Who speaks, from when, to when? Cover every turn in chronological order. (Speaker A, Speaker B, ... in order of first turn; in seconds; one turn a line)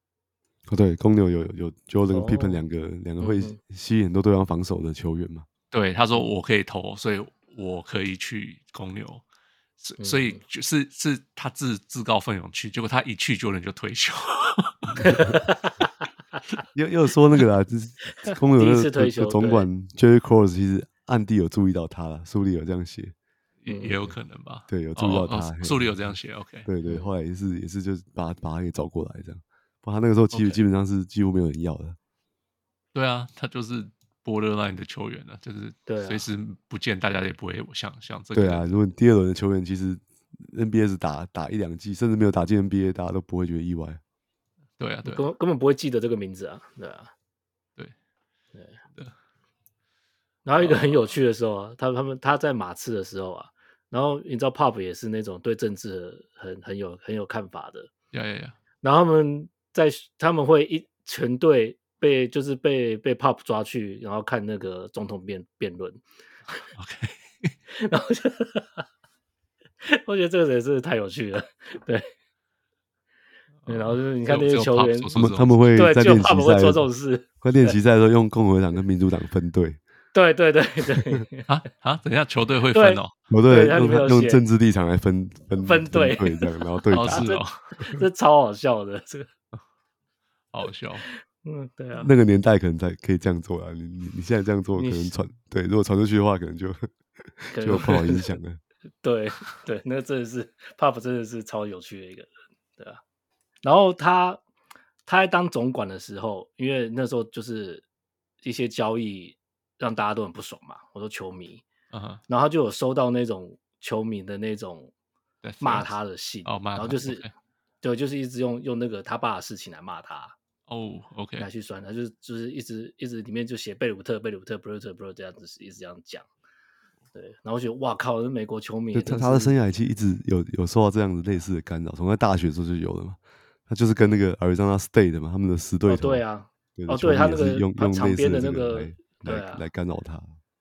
Speaker A: 0.7-5.5
Speaker B: 2.1-2.6
Speaker B: 3.2-3.6
Speaker C: 5.7-9.2
Speaker C: 9.8-15.3
Speaker B: 10.0-10.4
Speaker B: 15.0-15.8
Speaker A: 16.7-23.1
Speaker B: 18.2-19.7
Speaker C: 23.6-26.7
Speaker B: 23.7-24.1
Speaker A: 24.7-26.1
Speaker A: 26.6-32.0
Speaker B: 26.8-27.1
Speaker C: 30.3-30.6
Speaker C: 32.9-38.8
Speaker B: 35.9-36.2
Speaker A: 38.3-44.0
Speaker C: 44.8-45.3
Speaker B: 45.0-47.1
Speaker B: 50.5-57.9
Speaker C: 50.6-51.0
Speaker C: 58.1-58.5
Speaker B: 58.8-66.0
Speaker C: 66.7-67.5
Speaker B: 67.7-68.8
Speaker B: 69.8-72.1
Speaker C: 73.6-75.6
Speaker B: 73.7-75.2
Speaker A: 75.1-76.8
Speaker B: 75.7-77.8
Speaker A: 77.4-79.8
Speaker B: 80.1-81.5
Speaker C: 81.5-83.1
Speaker B: 82.7-84.4
Speaker A: 83.3-87.3
Speaker B: 85.5-89.3
Speaker C: 86.9-87.6
Speaker C: 90.5-91.0
Speaker B: 91.1-92.1
Speaker A: 92.0-98.6
Speaker B: 94.8-95.1
Speaker B: 97.5-98.2
Speaker B: 99.0-103.0
Speaker B: 103.6-104.4
Speaker B: 105.0-107.8
Speaker B: 108.4-111.6
Speaker C: 111.9-112.2
Speaker B: 112.3-114.9
Speaker C: 115.4-115.9
Speaker B: 115.6-117.2
Speaker C: 116.4-117.3
Speaker B: 117.8-120.3
Speaker C: 120.7-121.5
Speaker B: 121.4-126.3
Speaker B: 127.1-129.6
Speaker A: 128.9-136.2
Speaker B: 135.8-139.7
Speaker A: 136.8-140.4